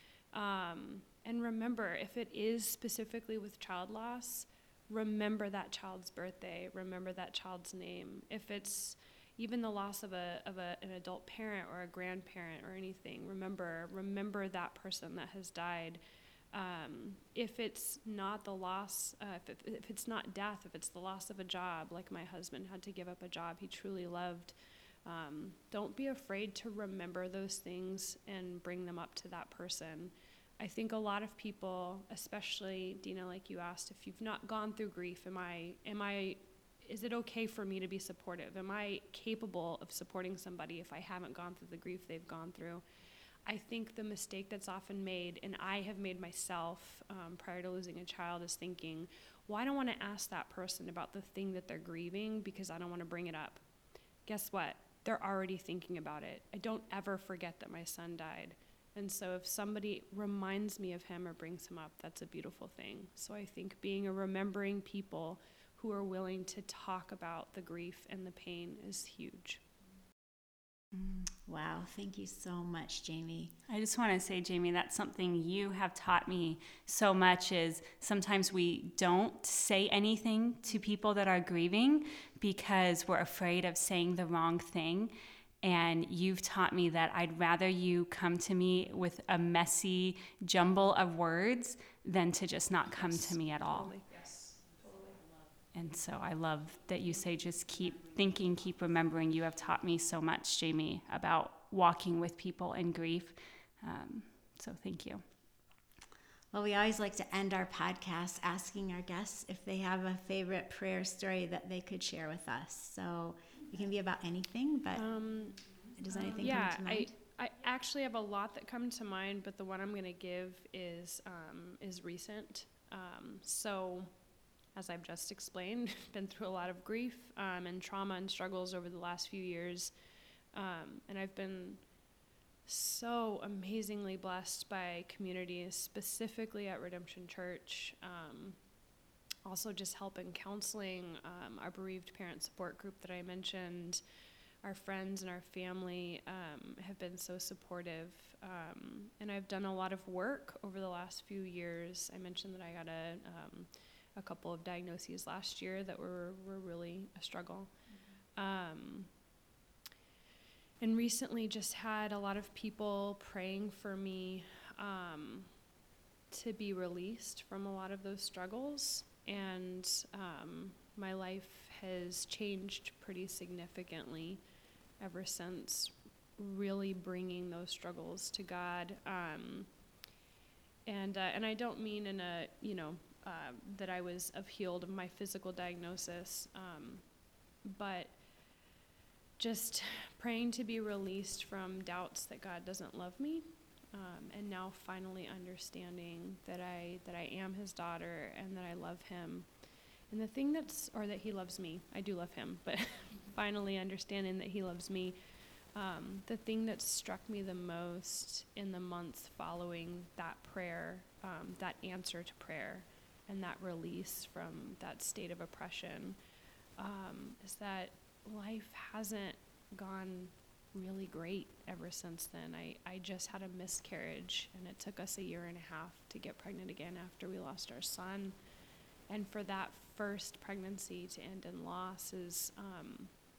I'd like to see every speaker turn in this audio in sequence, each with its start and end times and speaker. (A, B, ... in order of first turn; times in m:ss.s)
0:00.3-0:16.0 A
0:16.5-0:42.8 A
0:43.4-0:53.6 A
0:54.3-1:09.6 A
1:11.4-1:13.5 B
1:13.7-1:34.0 C
1:33.0-1:34.5 A
1:35.7-1:45.2 C
1:46.5-1:55.0 B
1:55.0-1:55.6 A
1:56.0-1:57.1 B
1:56.1-2:04.1 A
2:04.8-2:09.9 A
2:10.5-2:11.8 A
2:12.7-2:18.6 A
2:19.4-2:24.0 A
2:24.6-2:37.7 A
2:38.4-2:39.1 A
2:40.8-2:45.5 A
2:46.3-2:54.4 A
2:55.0-2:59.7 A
3:00.9-3:07.1 A
3:07.6-3:08.2 A
3:09.4-3:19.5 A
3:20.1-3:25.2 A
3:25.8-3:36.2 A
3:36.8-3:48.4 A
3:49.1-3:53.1 A